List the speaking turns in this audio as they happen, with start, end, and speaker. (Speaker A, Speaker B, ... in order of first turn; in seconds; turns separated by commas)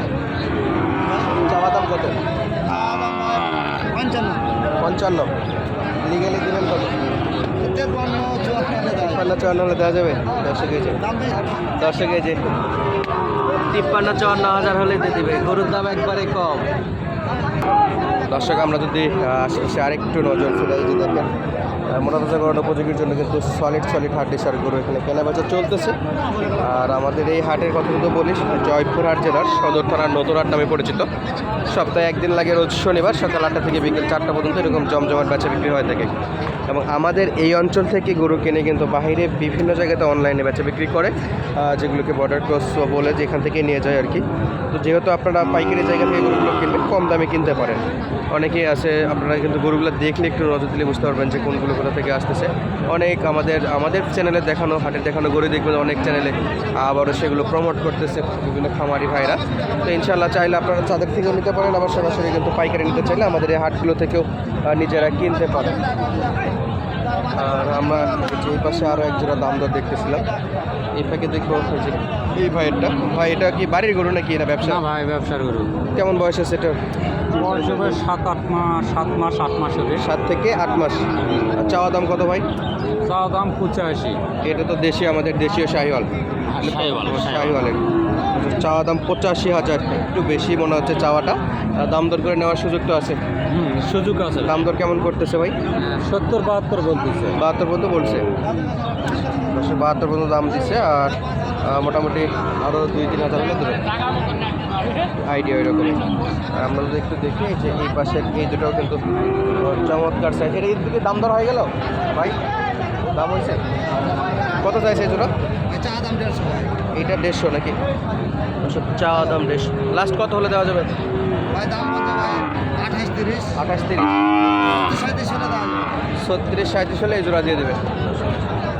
Speaker A: 1.3-2.2, Speaker B: 2.6-4.5, Speaker A: 4.8-5.3, Speaker A: 6.0-7.1, Speaker B: 7.6-9.2, Speaker A: 9.0-11.0, Speaker B: 11.1-11.4, Speaker A: 11.8-12.4, Speaker A: 13.7-16.7, Speaker A: 18.3-21.3, Speaker A: 21.9-26.0, Speaker A: 26.5-31.1, Speaker A: 31.7-36.1, Speaker A: 36.7-65.9, Speaker A: 67.3-70.3, Speaker A: 71.0-74.8, Speaker C: 74.6-75.8, Speaker A: 75.9-76.8, Speaker C: 77.4-80.0, Speaker A: 80.0-82.5, Speaker C: 83.0-84.2, Speaker A: 84.4-87.8, Speaker C: 86.5-87.6, Speaker A: 88.3-93.2, Speaker C: 93.5-94.6, Speaker A: 94.4-95.6, Speaker C: 95.8-97.4, Speaker A: 97.3-98.3, Speaker A: 99.4-103.9, Speaker A: 105.2-109.0, Speaker A: 109.6-112.4, Speaker A: 113.1-113.6, Speaker A: 114.6-115.3, Speaker B: 115.7-116.8, Speaker A: 116.9-117.8, Speaker A: 118.6-120.9, Speaker B: 121.5-123.6, Speaker A: 123.5-124.1, Speaker B: 124.7-125.9, Speaker A: 126.2-128.4